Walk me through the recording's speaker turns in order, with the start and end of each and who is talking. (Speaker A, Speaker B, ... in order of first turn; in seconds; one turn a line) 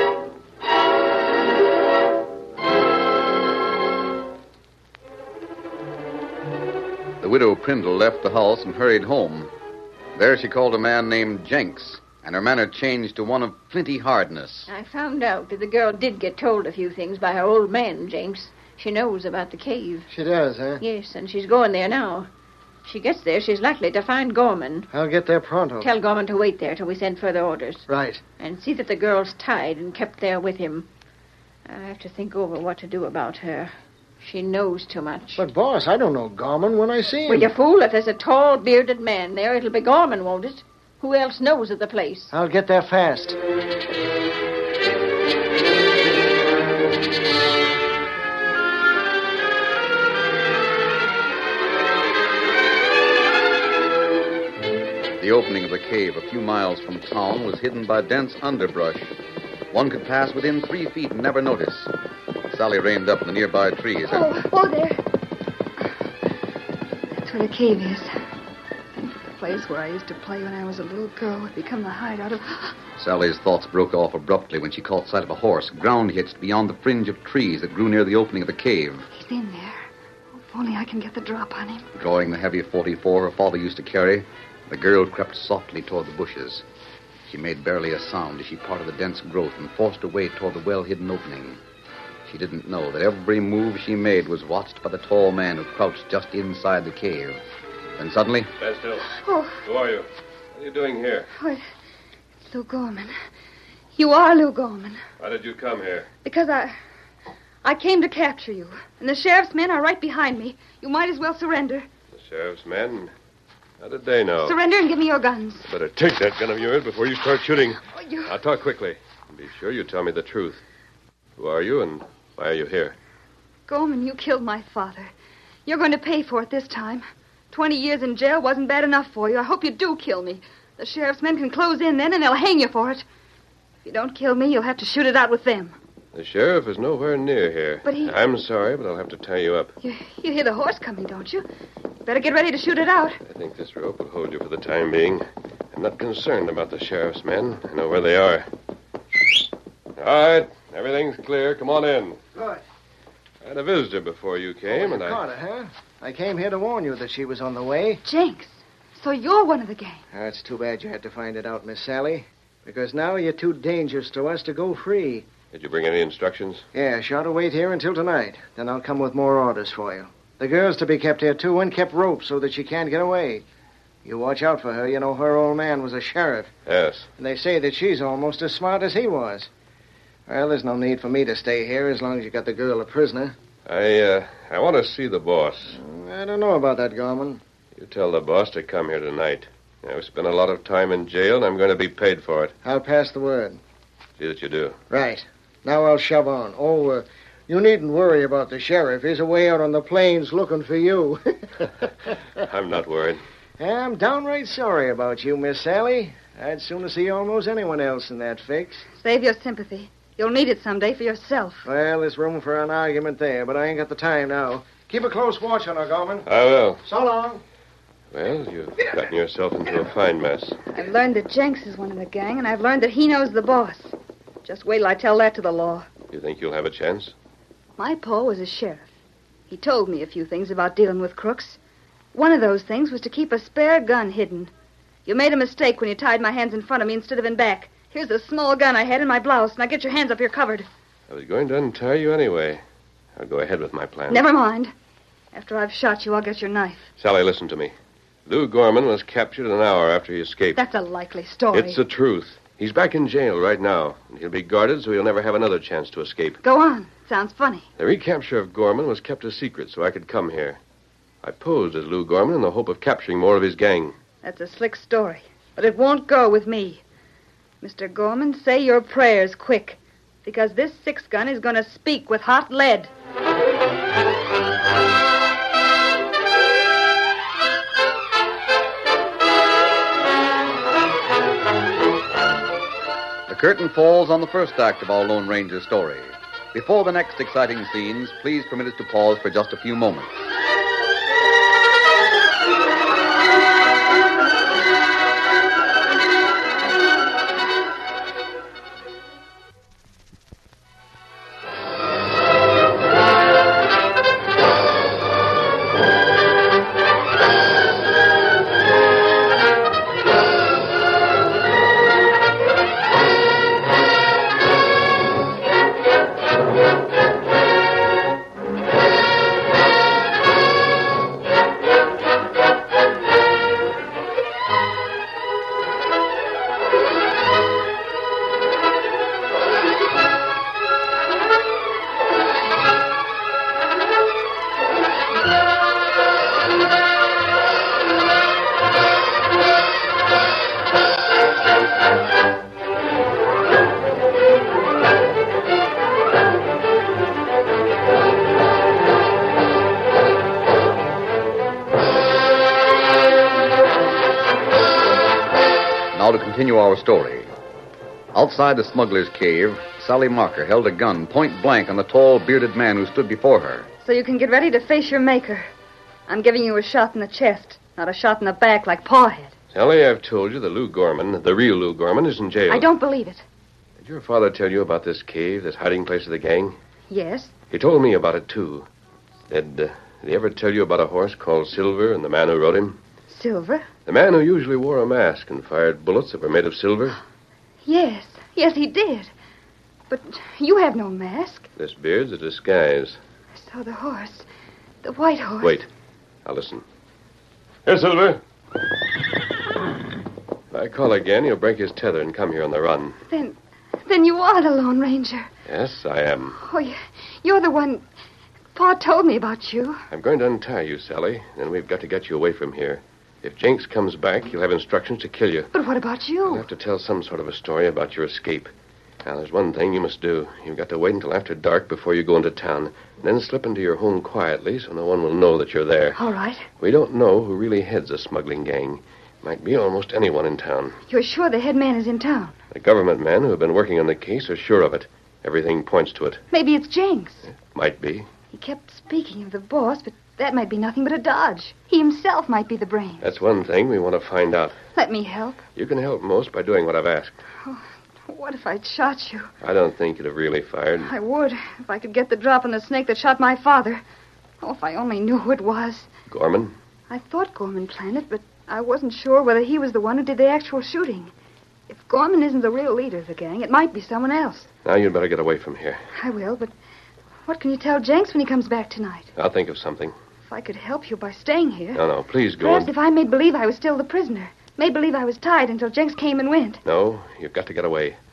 Speaker A: 7.2-9.5
Speaker A: 10.2-14.7
Speaker B: 14.7-20.1
Speaker C: 20.1-20.8
Speaker B: 20.8-22.3
Speaker B: 22.9-24.9
Speaker C: 24.9-25.9
Speaker B: 25.8-27.9
Speaker C: 27.9-28.2
Speaker B: 28.4-30.9
Speaker B: 31.7-35.4
Speaker C: 35.4-37.5
Speaker B: 37.3-42.3
Speaker C: 42.3-43.4
Speaker A: 55.2-59.1
Speaker A: 59.7-61.9
Speaker A: 62.5-64.3
Speaker D: 64.1-65.0
Speaker D: 67.1-68.1
Speaker D: 69.0-72.8
Speaker A: 73.0-79.1
Speaker D: 79.1-79.8
Speaker D: 80.4-81.9
Speaker A: 82.0-86.6
Speaker A: 87.3-91.6
Speaker A: 92.2-97.4
Speaker A: 98.0-98.5
Speaker E: 98.6-99.1
Speaker D: 99.2-99.6
Speaker E: 99.6-101.3
Speaker D: 101.4-101.6
Speaker D: 102.4-103.1
Speaker D: 104.0-105.0
Speaker E: 105.2-106.1
Speaker D: 106.2-106.8
Speaker D: 107.6-111.9
Speaker E: 112.1-113.1
Speaker E: 113.8-114.6
Speaker D: 114.4-115.7
Speaker E: 115.7-120.6
Speaker D: 117.9-118.3
Speaker E: 121.4-123.0
Speaker D: 123.7-125.1
Speaker D: 125.7-133.1
Speaker D: 133.8-135.8
Speaker E: 136.1-139.7
Speaker D: 137.8-138.2
Speaker D: 139.8-141.4
Speaker D: 142.1-143.2
Speaker E: 143.3-148.5
Speaker E: 150.0-152.2
Speaker C: 152.3-152.6
Speaker E: 153.4-155.2
Speaker C: 154.7-158.0
Speaker D: 158.1-160.0
Speaker C: 160.1-165.3
Speaker E: 165.5-166.6
Speaker C: 166.7-173.4
Speaker C: 174.1-176.5
Speaker E: 176.7-177.1
Speaker C: 177.2-179.5
Speaker C: 180.3-183.3
Speaker E: 183.7-185.8
Speaker C: 185.7-187.4
Speaker E: 187.8-192.5
Speaker C: 192.6-193.6
Speaker E: 194.2-194.8
Speaker C: 194.9-201.8
Speaker E: 202.4-203.2
Speaker C: 203.6-208.9
Speaker D: 209.0-211.7
Speaker C: 211.7-216.3
Speaker E: 216.3-216.8
Speaker C: 216.8-217.4
Speaker E: 218.1-220.6
Speaker D: 220.7-225.9
Speaker E: 226.1-227.1
Speaker D: 227.8-228.9
Speaker D: 229.5-231.6
Speaker D: 232.1-234.5
Speaker D: 235.1-240.7
Speaker E: 241.1-242.6
Speaker E: 243.2-244.3
Speaker D: 244.1-244.7
Speaker D: 245.3-246.9
Speaker E: 247.0-247.7
Speaker E: 248.3-250.6
Speaker D: 250.6-251.8
Speaker E: 251.5-256.4
Speaker D: 256.4-257.7
Speaker E: 257.8-260.6
Speaker E: 261.2-264.0
Speaker D: 264.2-266.8
Speaker D: 267.6-272.9
Speaker A: 283.3-290.3
Speaker A: 355.9-357.3
Speaker A: 358.1-363.7
Speaker D: 363.8-365.5
Speaker D: 366.1-369.3
Speaker E: 369.5-372.7
Speaker D: 372.5-373.2
Speaker E: 373.8-376.6
Speaker D: 376.9-377.3
Speaker E: 377.5-378.7
Speaker E: 379.3-382.8
Speaker D: 383.1-383.7
Speaker E: 383.9-387.0
Speaker D: 387.6-389.1
Speaker D: 389.9-391.5
Speaker E: 391.6-393.0
Speaker D: 393.4-394.3
Speaker D: 394.8-395.6
Speaker E: 395.4-395.7
Speaker E: 396.2-396.6
Speaker E: 397.7-398.2
Speaker E: 400.5-403.0
Speaker D: 403.1-405.3
Speaker E: 405.5-406.4
Speaker D: 406.4-407.8
Speaker D: 408.6-409.8
Speaker E: 409.9-415.5
Speaker D: 415.5-416.5
Speaker E: 416.3-418.5
Speaker E: 419.0-426.0
Speaker D: 426.0-426.5
Speaker E: 426.6-430.8
Speaker D: 430.9-432.4
Speaker E: 432.5-436.2
Speaker D: 436.3-437.3
Speaker E: 437.3-438.1
Speaker D: 438.3-443.1
Speaker E: 443.0-444.6
Speaker D: 444.8-445.4
Speaker E: 445.6-447.2
Speaker D: 447.4-449.3
Speaker E: 449.4-450.9
Speaker D: 450.8-453.8
Speaker D: 454.4-455.9
Speaker E: 456.1-456.5
Speaker D: 456.9-461.1
Speaker D: 461.7-464.5
Speaker E: 464.6-465.8
Speaker D: 466.0-466.5
Speaker D: 467.3-469.1
Speaker E: 469.2-469.9
Speaker D: 470.3-471.8
Speaker E: 471.8-472.7
Speaker D: 472.4-476.6
Speaker E: 476.6-478.0